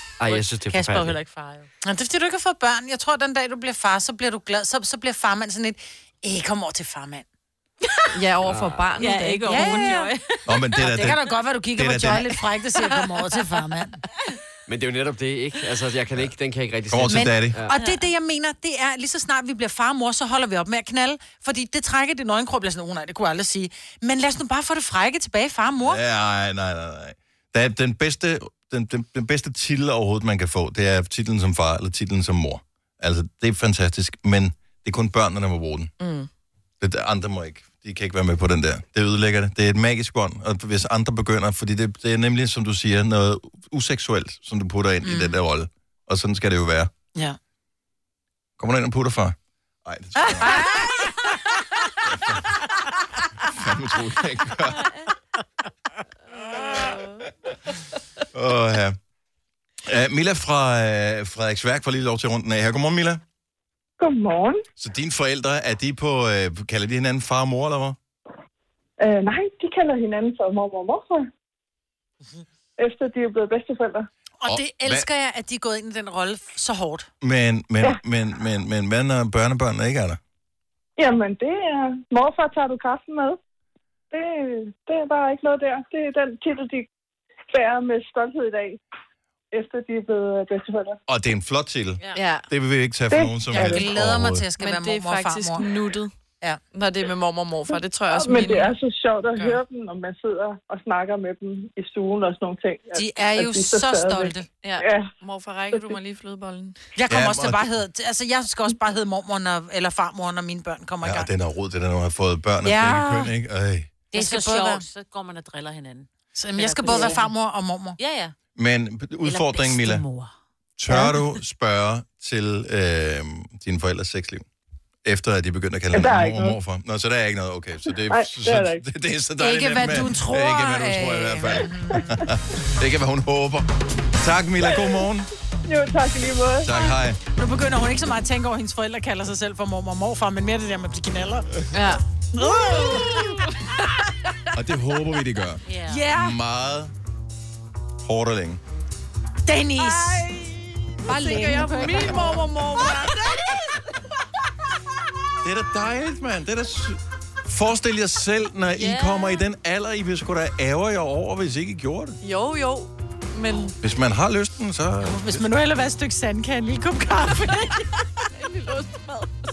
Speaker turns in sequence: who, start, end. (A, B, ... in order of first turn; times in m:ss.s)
0:00.2-0:01.2 A
0:00.7-0:07.3 B
0:08.1-0:10.1 C
0:08.4-0:08.9 A
0:09.0-0:10.4 D
0:09.5-0:10.0 B
0:10.5-0:12.4 E
0:10.8-0:14.0 B
0:14.7-0:17.8 A
0:16.9-0:17.6 E
0:17.1-0:26.0 B
0:25.8-0:35.9 E
0:36.0-0:36.3 C
0:36.8-0:46.9 E
0:45.0-0:45.4 B
0:48.6-0:50.8 E
0:50.4-0:50.9 B
0:52.1-0:52.6 E
0:53.4-0:54.9 E
0:58.3-0:59.0 E
0:59.8-1:03.2 E
1:04.0-1:04.6 F
1:04.8-1:08.0 E
1:09.0-1:11.3 F
1:12.8-1:14.1 F
1:14.4-1:17.1 B
1:14.4-1:15.1 E
1:17.2-1:20.2 E
1:21.0-1:23.4 F
1:24.1-1:26.9 F
1:27.5-1:28.8 F
1:29.5-1:31.0 F
1:31.1-1:34.5 E
1:32.2-1:32.5 C
1:33.1-1:33.8 F
1:33.5-1:35.7 B
1:34.6-1:36.1 C
1:36.7-1:38.8 C
1:38.1-1:45.1 F
1:39.3-1:39.6 C
1:43.0-1:44.5 B
1:44.6-1:46.8 C
1:45.7-1:46.0 F
1:47.0-1:51.3 B
1:47.1-1:47.7 E
1:51.0-1:53.9 E
1:52.6-1:53.3 B
1:54.1-1:54.8 B
1:54.1-1:57.3 D
1:56.4-1:58.0 B
1:58.0-1:58.4 D
1:58.6-2:00.0 E
1:59.2-2:00.3 D
2:00.8-2:04.4 E
2:00.9-2:01.2 F
2:05.0-2:13.7 E
2:05.9-2:06.6 F
2:07.9-2:08.8 F
2:09.4-2:12.3 B
2:14.2-2:15.3 E
2:14.6-2:15.0 F
2:15.7-2:16.7 F
2:16.6-2:17.2 E
2:16.8-2:21.6 B
2:21.7-2:22.0 C
2:22.4-2:23.3 B
2:22.9-2:23.2 C
2:24.5-2:26.9 E
2:25.7-2:26.0 D
2:25.9-2:26.4 B
2:28.0-2:28.6 E
2:29.5-2:30.3 B
2:29.8-2:33.6 C
2:31.0-2:32.5 B
2:35.4-2:42.2 E
2:38.7-2:39.5 D
2:42.2-2:43.8 C
2:43.8-2:45.4 E
2:45.0-2:47.8 B
2:48.6-2:49.1 C